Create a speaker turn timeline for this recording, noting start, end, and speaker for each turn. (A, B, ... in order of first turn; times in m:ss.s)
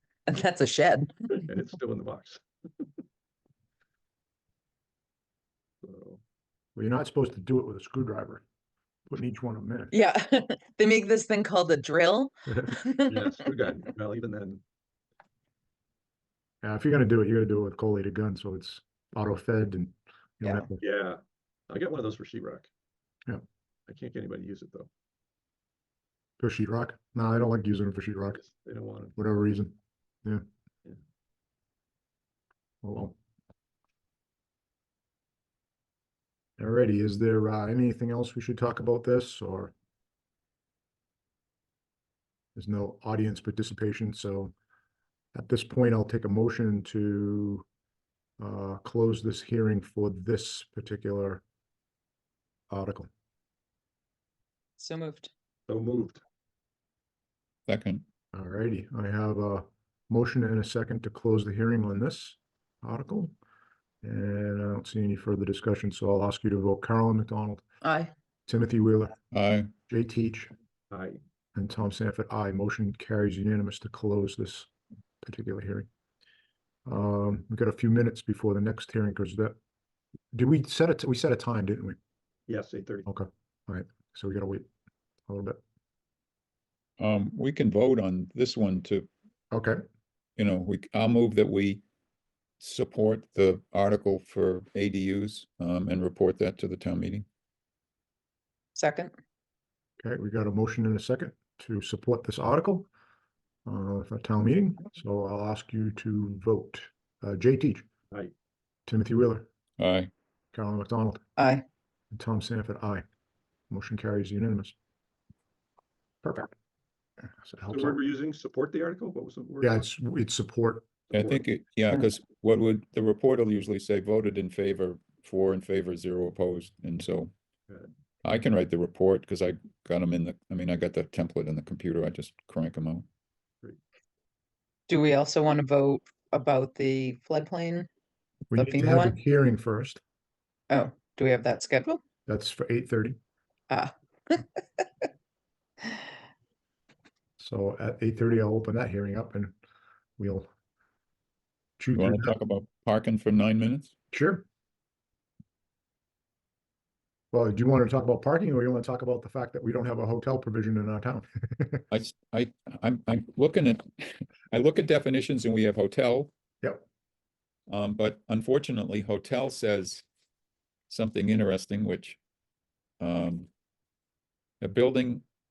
0:00.3-0:01.4 A
0:01.3-0:02.9 B
0:05.8-0:06.2 B
0:06.8-0:08.4 C
0:09.1-0:09.9 C
0:09.9-0:13.3 A
0:12.5-0:12.7 C
0:13.1-0:14.6 B
0:16.6-0:20.8 C
0:20.4-0:20.7 A
0:20.8-0:22.7 B
0:23.9-0:24.9 B
0:26.4-0:28.4 C
0:28.4-0:29.2 B
0:29.2-0:30.4 C
0:32.8-0:33.2 C
0:36.6-0:39.7 C
0:42.6-0:44.5 C
0:45.3-0:47.7 C
0:48.4-0:51.4 C
0:52.7-0:53.1 C
0:54.8-0:55.3 A
0:55.7-0:56.2 B
0:57.7-0:58.0 D
0:58.3-1:03.3 C
1:04.0-1:07.6 C
1:07.8-1:08.1 A
1:08.5-1:09.2 C
1:09.3-1:09.7 D
1:09.9-1:10.5 C
1:10.9-1:11.2 B
1:11.6-1:14.7 C
1:15.2-1:15.9 C
1:16.9-1:19.6 C
1:20.3-1:22.0 C
1:22.5-1:23.1 B
1:23.1-1:24.7 C
1:25.3-1:25.6 C
1:27.0-1:29.1 D
1:29.5-1:29.8 C
1:30.4-1:31.8 D
1:32.6-1:37.2 D
1:38.8-1:39.1 A
1:40.0-1:42.9 C
1:43.7-1:47.9 C
1:48.9-1:49.5 C
1:49.8-1:50.1 D
1:50.5-1:51.2 C
1:51.4-1:51.6 A
1:52.1-1:53.0 C
1:53.7-1:54.7 C
1:56.2-1:56.6 C
1:57.2-1:58.0 C
1:57.7-1:59.8 B
1:59.6-2:00.9 C
2:01.1-2:07.3 D
2:01.1-2:01.4 B
2:08.2-2:13.1 D
2:14.9-2:17.9 A
2:18.5-2:20.0 C
2:18.5-2:19.2 A
2:20.7-2:22.0 A
2:22.3-2:23.2 C
2:23.7-2:25.0 A
2:27.4-2:29.5 C
2:30.2-2:30.5 C
2:31.8-2:32.3 C
2:32.0-2:33.9 D
2:34.1-2:34.4 C
2:37.3-2:41.8 C
2:41.9-2:46.3 D
2:47.7-2:50.0 D
2:50.9-2:52.2 D
2:53.0-2:53.5 D
2:54.6-2:55.2 D